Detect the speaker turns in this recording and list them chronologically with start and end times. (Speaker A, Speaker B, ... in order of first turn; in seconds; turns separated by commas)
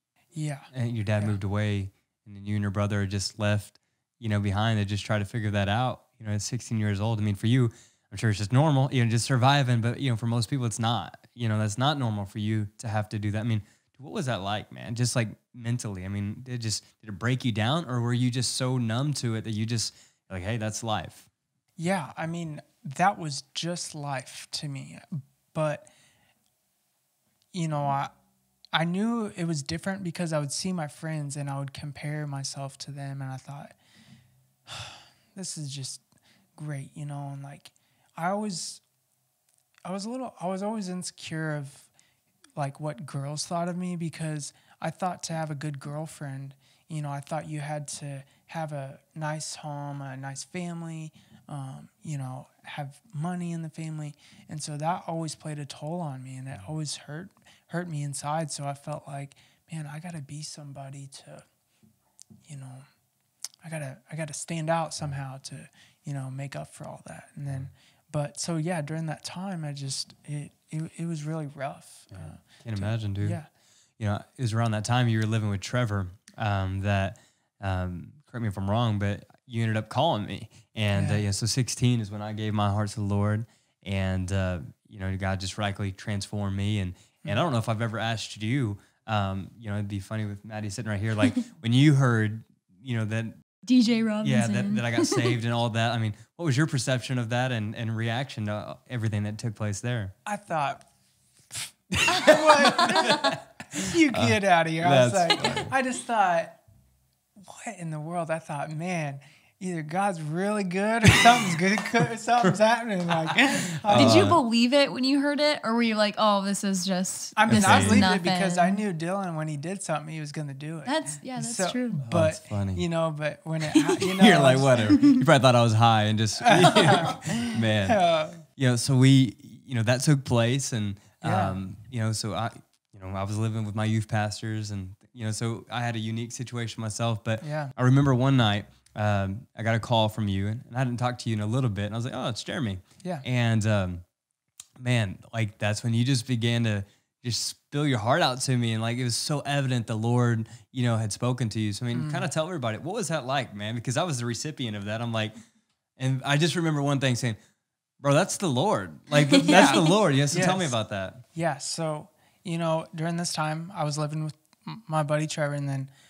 Speaker A: 0.3-1.4, Speaker B: 0.7-21.3, Speaker A: 21.8-25.9, Speaker A: 27.5-28.1, Speaker A: 28.7-33.8, Speaker A: 34.7-36.0, Speaker A: 36.6-38.8, Speaker A: 39.9-41.9, Speaker A: 42.6-61.5, Speaker A: 62.5-62.9, Speaker A: 63.6-73.5, Speaker B: 72.1-73.4, Speaker B: 74.0-93.4, Speaker A: 80.9-81.2, Speaker C: 93.6-95.3, Speaker B: 94.2-100.1, Speaker A: 100.2-100.8, Speaker A: 101.9-106.6, Speaker B: 102.1-105.7, Speaker A: 107.4-114.3, Speaker B: 113.9-114.4, Speaker C: 113.9-118.8, Speaker A: 117.3-124.9, Speaker B: 117.5-118.1, Speaker C: 120.8-122.0, Speaker B: 122.0-122.8, Speaker B: 124.0-144.0, Speaker C: 124.9-125.2, Speaker A: 126.4-128.4, Speaker A: 131.2-131.6, Speaker A: 137.4-137.7, Speaker B: 144.8-155.3, Speaker A: 151.9-152.3, Speaker B: 156.0-157.4, Speaker B: 158.0-161.2, Speaker C: 159.3-159.9, Speaker A: 159.4-160.8, Speaker A: 161.3-165.9